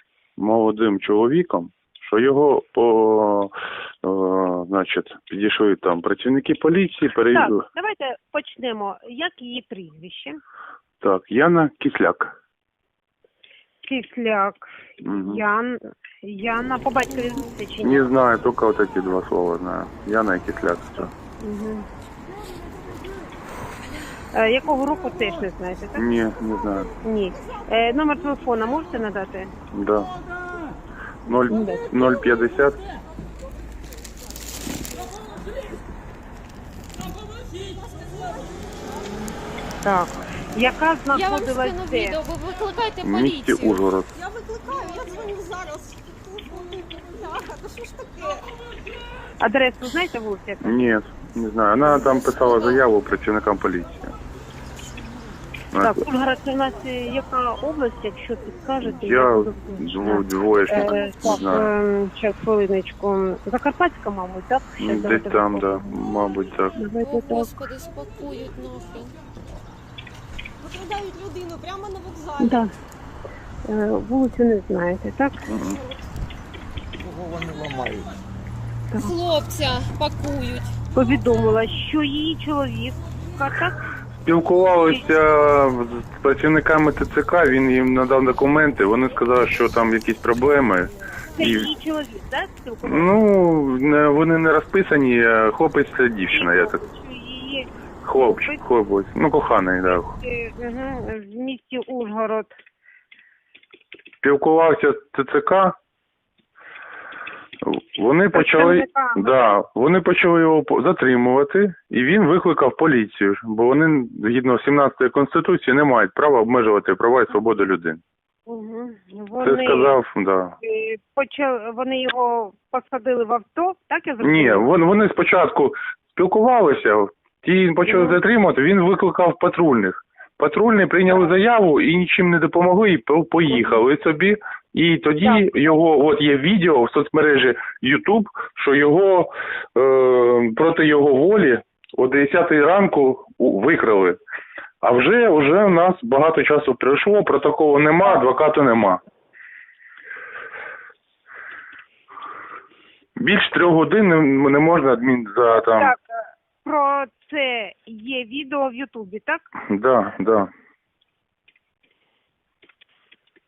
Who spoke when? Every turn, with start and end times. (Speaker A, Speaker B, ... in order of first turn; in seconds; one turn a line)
Speaker A: 0.4-7.6
Speaker B: 7.3-10.4
Speaker A: 11.0-12.3
Speaker B: 13.8-18.0
Speaker A: 15.0-15.4
Speaker A: 17.8-21.1
Speaker B: 21.4-21.9
Speaker B: 24.3-26.0
Speaker A: 25.9-26.9
Speaker B: 27.0-29.5
Speaker A: 29.7-30.1
Speaker A: 31.2-32.8
Speaker B: 31.5-31.9
Speaker B: 39.8-42.2
Speaker C: 41.1-43.8
Speaker A: 43.0-44.1
Speaker D: 44.2-48.4
Speaker B: 49.4-50.8
Speaker A: 50.6-54.1
Speaker A: 55.7-56.0
Speaker B: 55.8-65.8
Speaker A: 58.8-61.7
Speaker A: 64.8-66.7
Speaker B: 66.8-67.5
Speaker C: 67.0-69.2
Speaker D: 70.6-72.4
Speaker B: 72.4-72.7
Speaker B: 73.6-75.4
Speaker A: 75.5-75.8
Speaker C: 79.0-80.8
Speaker B: 80.9-83.8
Speaker A: 84.2-91.7
Speaker B: 91.3-93.2
Speaker A: 92.8-96.8
Speaker B: 96.3-98.6
Speaker A: 98.0-100.1
Speaker B: 99.9-102.5
Speaker A: 104.2-105.7
Speaker A: 107.6-118.0
Speaker B: 108.3-109.6
Speaker B: 118.5-120.0
Speaker A: 119.4-120.6
Speaker B: 120.6-124.7
Speaker A: 124.2-144.2
Speaker B: 127.8-128.2
Speaker A: 144.8-149.0
Speaker A: 153.2-155.9
Speaker B: 155.5-159.4
Speaker A: 159.7-160.5